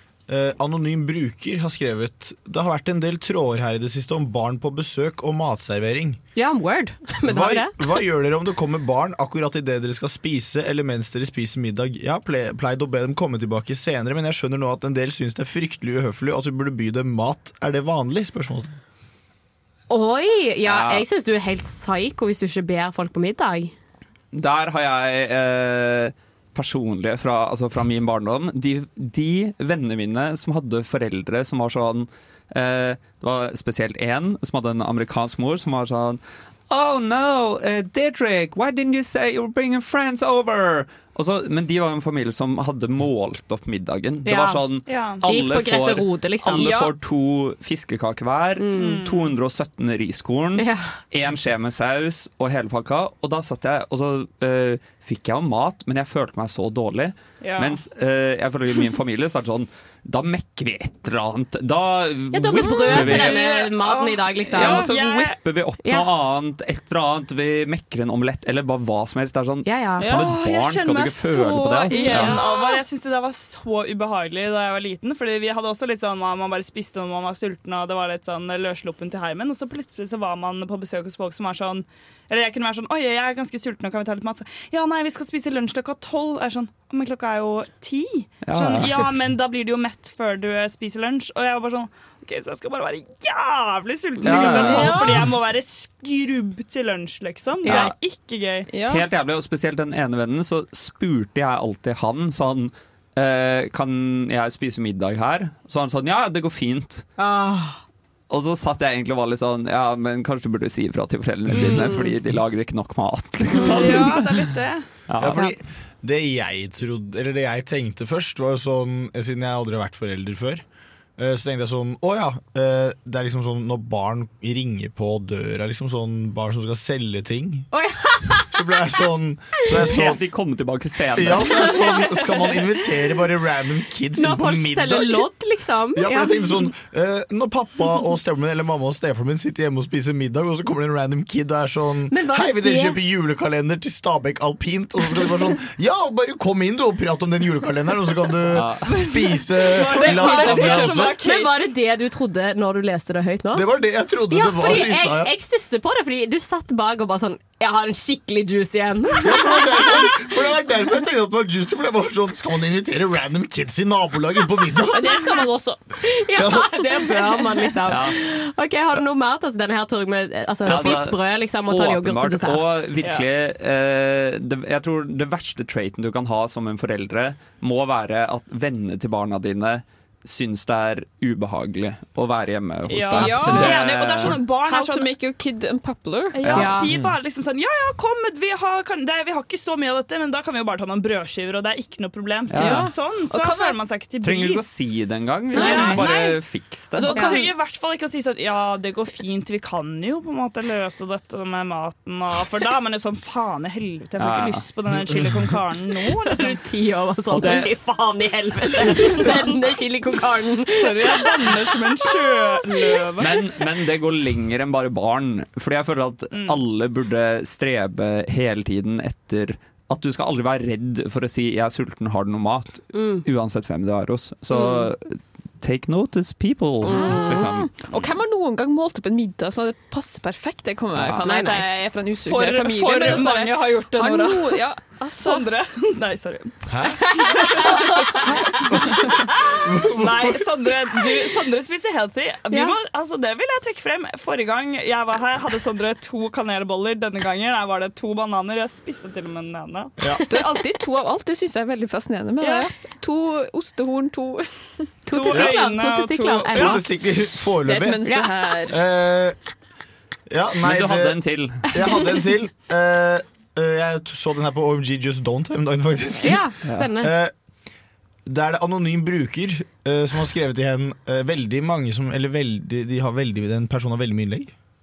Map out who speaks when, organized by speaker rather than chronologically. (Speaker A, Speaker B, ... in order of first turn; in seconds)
Speaker A: 0.3-6.2, 7.3-18.7, 115.2-120.6, 121.2-127.7, 128.5-130.2, 131.2-135.3, 135.9-151.1, 153.5-155.3, 159.2-165.1, 166.3-166.7, 236.7-237.0, 238.7-240.4, 256.5-258.1, 258.6-259.4, 260.3-267.3, 268.3-274.5
Speaker B: 6.3-8.0, 19.9-23.7, 44.2-46.9, 48.6-49.0, 50.5-50.9, 62.3-64.9, 65.8-66.1, 69.6-70.2, 71.9-72.4, 107.2-107.8, 111.5-112.1, 113.5-114.1, 127.7-129.0, 134.2-136.3, 142.1-143.0, 150.2-153.7, 154.3-160.0, 164.9-165.5, 166.0-172.6, 183.4-183.6, 186.5-186.8, 195.5-196.0, 197.1-197.4, 206.2-211.5, 222.9-223.2, 224.5-224.9, 226.8-227.5, 231.2-231.6, 237.2-238.2, 255.1-256.8, 258.0-258.3, 266.2-267.1
Speaker C: 20.6-21.0, 24.3-63.5, 64.5-72.4, 88.4-89.1, 94.2-95.2, 97.6-97.9, 98.9-107.1, 108.3-114.4, 115.1-115.4, 129.7-131.8, 148.5-149.0, 167.9-168.2, 170.7-184.4, 186.4-187.0, 192.5-192.9, 194.2-197.3, 204.2-205.4, 207.3-207.7, 213.2-227.7, 230.9-231.2, 260.6-261.7
Speaker D: 44.9-45.2, 48.8-49.3, 57.4-57.8, 63.0-65.4, 70.0-98.7, 113.5-114.9, 149.6-151.6, 173.0-173.2, 182.9-185.1, 186.4-194.6, 195.5-196.4, 196.9-206.6, 208.9-209.6, 210.7-213.5, 216.3-216.6, 232.2-238.2, 239.8-249.9, 252.4-252.7, 255.1-256.9
Speaker E: 94.3-95.3, 98.7-99.0, 164.9-165.8, 183.1-186.9, 192.5-193.8, 195.6-196.0, 226.8-235.5, 250.3-255.4, 257.6-258.8